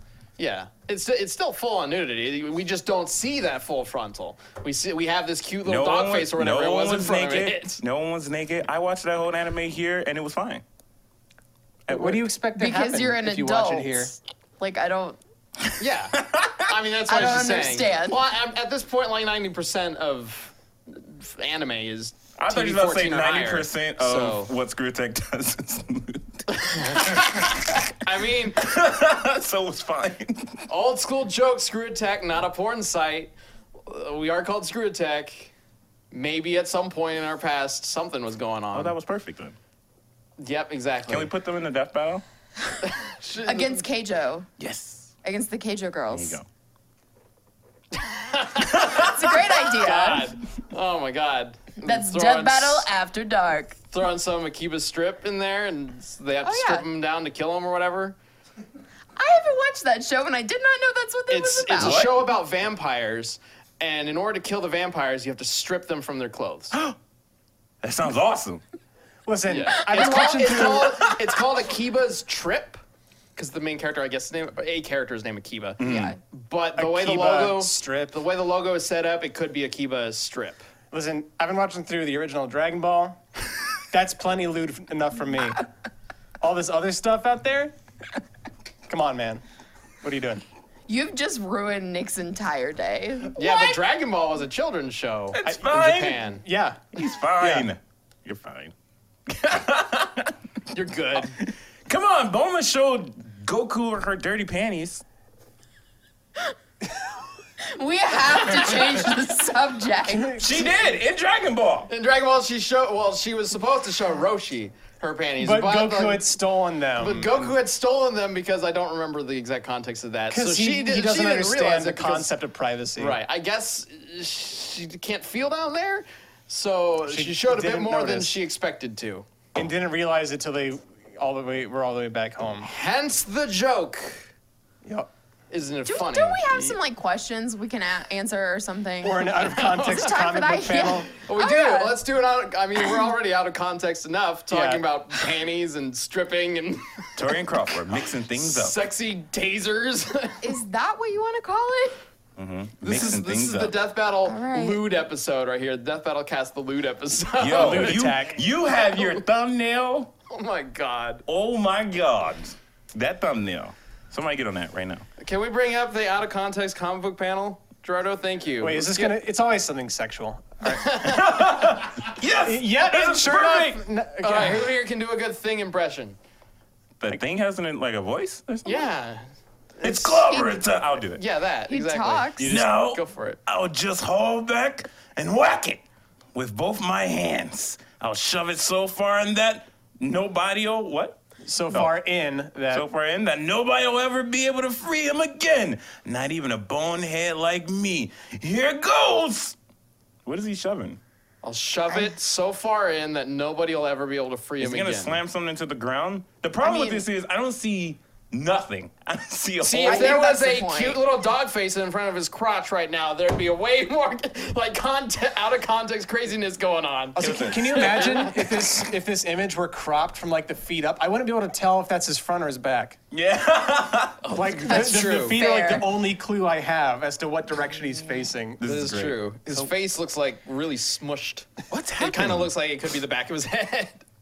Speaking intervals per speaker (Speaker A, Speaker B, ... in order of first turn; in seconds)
Speaker A: 0.4-7.8, 15.8-24.5, 26.6-28.6, 30.7-33.3, 33.9-35.5, 36.1-38.9, 40.4-41.3, 43.0-43.8, 47.9-52.9, 53.9-58.2, 61.3-66.7, 69.5-72.8, 73.3-80.6, 93.3-96.4, 100.7-101.4, 111.9-116.4, 117.0-122.3, 123.0-129.3, 132.6-134.3, 135.5-136.8, 139.7-140.0, 141.1-147.4, 148.2-150.5, 152.8-159.2, 160.3-161.2, 165.2-169.1, 170.7-171.7, 174.2-176.2, 178.6-179.2, 179.8-180.6, 181.2-183.4, 201.4-205.2, 209.6-218.8, 224.2-225.4, 228.6-234.0
Speaker B: 5.6-10.6, 11.9-12.2, 16.2-16.6, 22.4-27.2, 28.6-30.6, 38.7-39.5, 41.1-42.2, 44.6-45.1, 46.1-46.5, 61.8-62.3, 67.8-68.6, 75.8-76.2, 95.3-96.2, 96.9-98.7, 99.3-100.3, 101.4-105.0, 110.3-111.9, 147.2-148.8, 152.4-153.7, 157.4-160.1, 161.3-165.1, 172.0-173.7, 177.0-178.9, 179.8-181.2, 182.4-191.2, 192.7-199.6, 200.2-201.0, 204.6-210.2, 217.2-218.1, 223.1-224.5, 228.6-229.7, 231.7-232.5
Speaker C: 11.9-14.1, 69.2-71.0, 76.8-78.2, 80.9-83.2, 83.9-85.7, 86.4-87.7, 88.9-89.4, 90.0-90.4, 95.5-97.7, 110.1-110.7, 115.4-117.5, 120.3-123.2, 127.1-128.3, 129.5-132.7, 139.0-141.1, 144.5-144.8, 157.5-158.5, 168.6-174.7, 191.4-192.8, 217.1-223.0, 224.3-228.6
Speaker D: 12.6-15.2, 17.1-18.2, 43.5-44.5, 45.2-46.4, 48.7-50.3, 51.8-53.8, 56.4-56.9, 59.1-62.0, 69.9-71.2, 90.9-93.8, 107.6-110.4, 135.8-142.0, 150.4-152.0, 154.2-154.8, 181.7-182.5, 206.6-207.1, 209.8-211.0, 224.6-225.9